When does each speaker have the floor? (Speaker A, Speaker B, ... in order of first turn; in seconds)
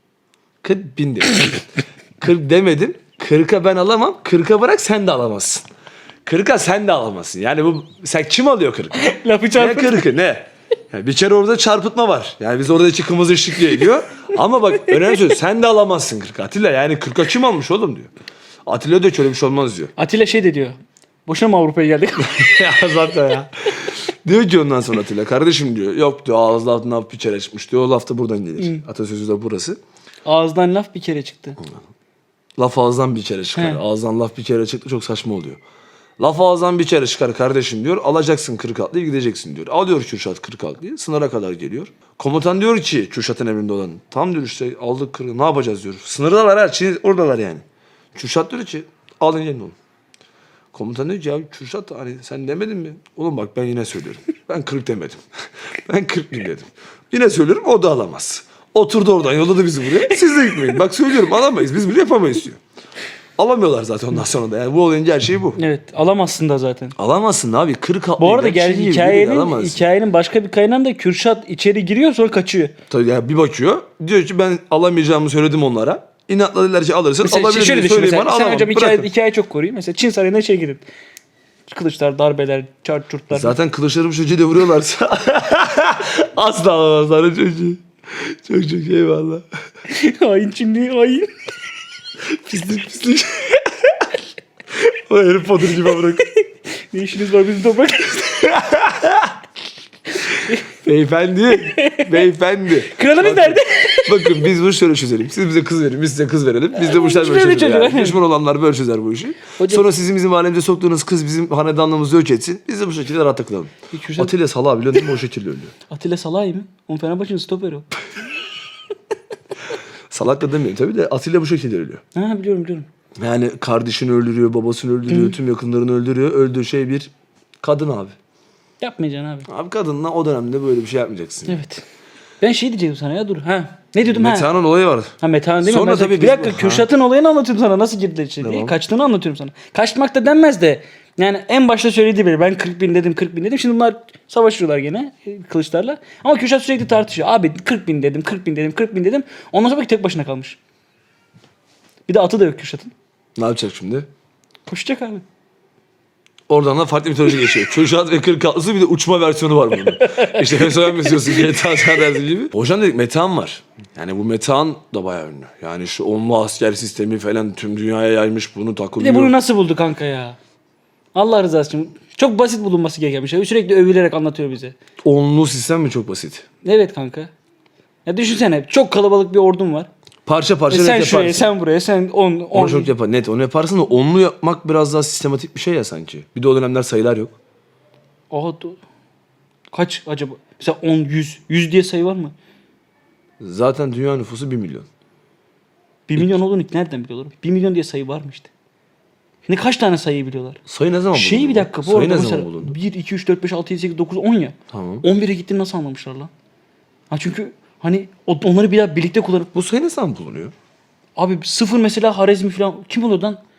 Speaker A: 0.6-5.7, 6.2-9.0, 9.6-18.1, 18.7-19.9, 22.3-29.8, 32.6-35.6, 36.2-49.8, 50.7-55.2, 55.9-62.6, 63.4-65.6, 67.0-69.8, 72.9-79.1, 83.3-89.5, 92.3-93.6, 94.9-96.3, 98.2-99.3, 100.7-115.7, 120.1-122.0, 123.2-128.2, 129.5-131.6, 134.1-136.9, 138.4-138.8, 153.4-154.1, 156.5-169.4, 175.0-176.5, 180.3-181.4, 182.5-187.4, 193.4-194.9, 196.2-196.4, 200.7-202.8, 204.7-205.1, 209.5-210.5
Speaker B: 8.9-10.1, 20.0-22.7, 30.3-31.6, 33.6-33.8, 60.4-60.7, 65.6-67.0, 68.2-72.7, 77.2-80.8, 81.7-83.5, 89.9-91.3, 96.9-98.5, 101.5-102.2, 102.9-104.5, 106.7-108.2, 109.6-109.8, 113.9-114.3, 115.9-117.9, 122.1-122.9, 125.1-125.3, 128.8-129.5, 131.5-131.8, 132.4-134.5, 135.2-150.6, 152.1-152.9, 154.7-155.2, 160.0-162.0, 169.0-170.4, 171.1-174.8, 176.6-177.3, 178.1-179.9, 180.7-182.9, 188.3-188.8, 189.7-192.3, 196.1-198.5, 199.5-200.6, 201.1-206.3, 207.1-209.5, 211.2-213.4